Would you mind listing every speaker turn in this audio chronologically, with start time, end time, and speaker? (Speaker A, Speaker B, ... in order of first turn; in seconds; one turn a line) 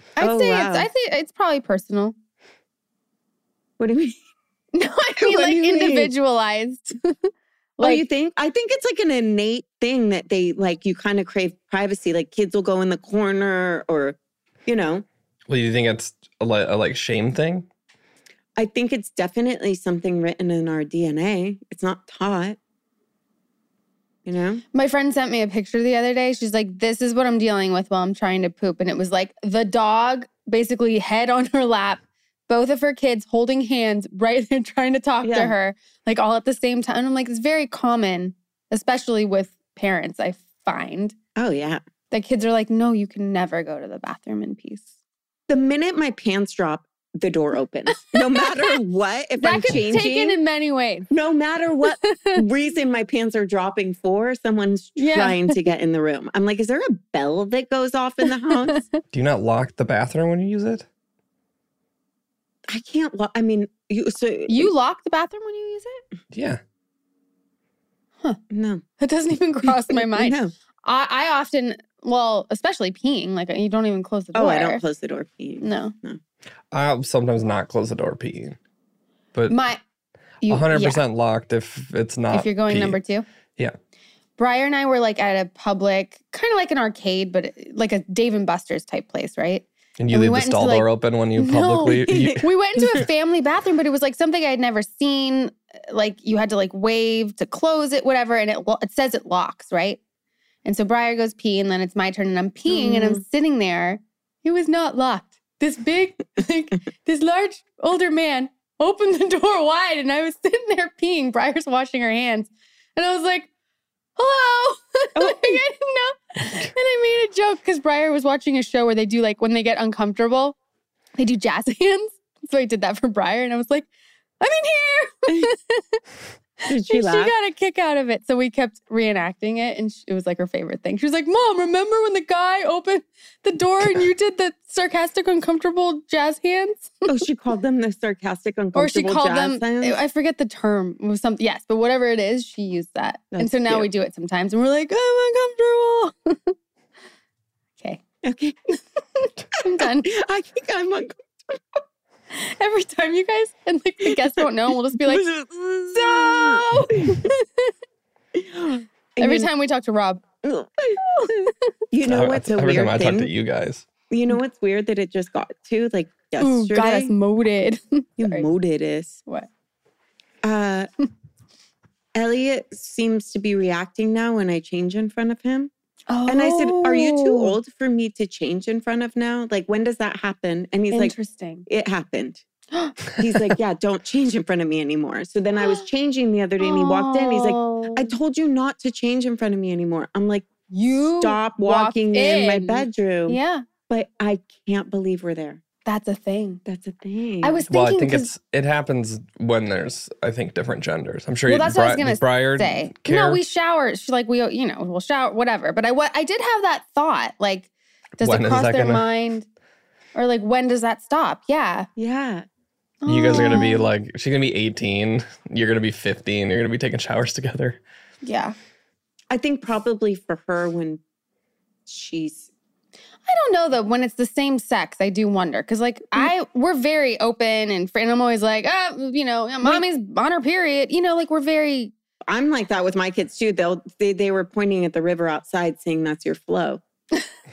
Speaker A: 0.2-2.1
Speaker B: 0.2-0.9
Speaker B: 3.8-4.2
Speaker A: 4.8-8.0
Speaker B: 5.2-6.1
Speaker B: 7.8-15.1
Speaker C: 15.5-17.7
Speaker B: 18.6-22.6
Speaker B: 24.3-24.6
Speaker A: 24.7-41.2
Speaker B: 35.2-35.5
Speaker B: 41.4-41.8
Speaker A: 42.1-44.9
Speaker B: 45.5-50.4
Speaker A: 48.0-48.8
Speaker A: 49.4-51.1
Speaker B: 51.1-58.8
Speaker A: 52.0-52.4
Speaker A: 55.0-55.6
Speaker A: 58.5-59.0
Speaker C: 59.1-60.9
Speaker B: 62.7-64.7
Speaker A: 64.5-66.0
Speaker C: 66.3-66.6
Speaker B: 68.5-68.8
Speaker A: 69.0-74.8
Speaker B: 69.9-70.5
Speaker B: 74.3-76.2
Speaker A: 75.6-75.9
Speaker C: 76.7-78.6
Speaker C: 79.3-79.6
Speaker A: 79.5-79.8
Speaker A: 80.4-81.0
Speaker C: 80.5-83.0
Speaker A: 82.3-83.3
Speaker A: 84.4-100.0
Speaker C: 90.0-92.5
Speaker B: 92.0-93.0
Speaker A: 100.7-113.5
Speaker B: 102.7-103.2
Speaker A: 114.2-120.6
Speaker B: 115.2-115.6
Speaker A: 121.2-123.9
Speaker A: 124.4-126.0
Speaker B: 125.3-125.5
Speaker A: 126.7-137.0
Speaker B: 126.7-127.3
Speaker B: 137.1-140.0
Speaker A: 138.8-146.6
Speaker B: 143.3-143.9
Speaker B: 148.2-148.6
Speaker A: 149.2-150.1
Speaker B: 149.8-151.8
Speaker A: 152.3-155.3
Speaker B: 154.0-156.9
Speaker A: 155.9-157.7
Speaker B: 158.3-159.5
Speaker A: 159.2-160.2
Speaker B: 160.4-163.3
Speaker A: 161.0-161.5
Speaker C: 162.1-163.9
Speaker B: 164.1-167.1
Speaker A: 166.4-168.5
Speaker B: 168.2-169.2
Speaker B: 170.4-170.9
Speaker B: 172.2-175.7
Speaker A: 176.1-177.6
Speaker B: 176.3-181.2
Speaker A: 180.9-181.7
Speaker B: 181.7-182.4
Speaker A: 182.7-183.0
Speaker B: 183.2-195.6
Speaker A: 185.6-185.8
Speaker A: 186.6-188.1
Speaker A: 190.7-193.7
Speaker A: 195.9-196.6
Speaker B: 196.7-197.6
Speaker A: 197.4-198.3
Speaker C: 197.7-203.4
Speaker A: 201.5-209.5
Speaker C: 208.2-209.1
Speaker A: 210.1-211.9
Speaker B: 212.0-212.5
Speaker A: 213.0-213.9
Speaker C: 213.1-217.8
Speaker B: 213.3-213.7
Speaker A: 218.2-218.6
Speaker B: 219.3-221.0
Speaker B: 221.9-222.5
Speaker A: 223.3-231.9
Speaker B: 232.3-236.8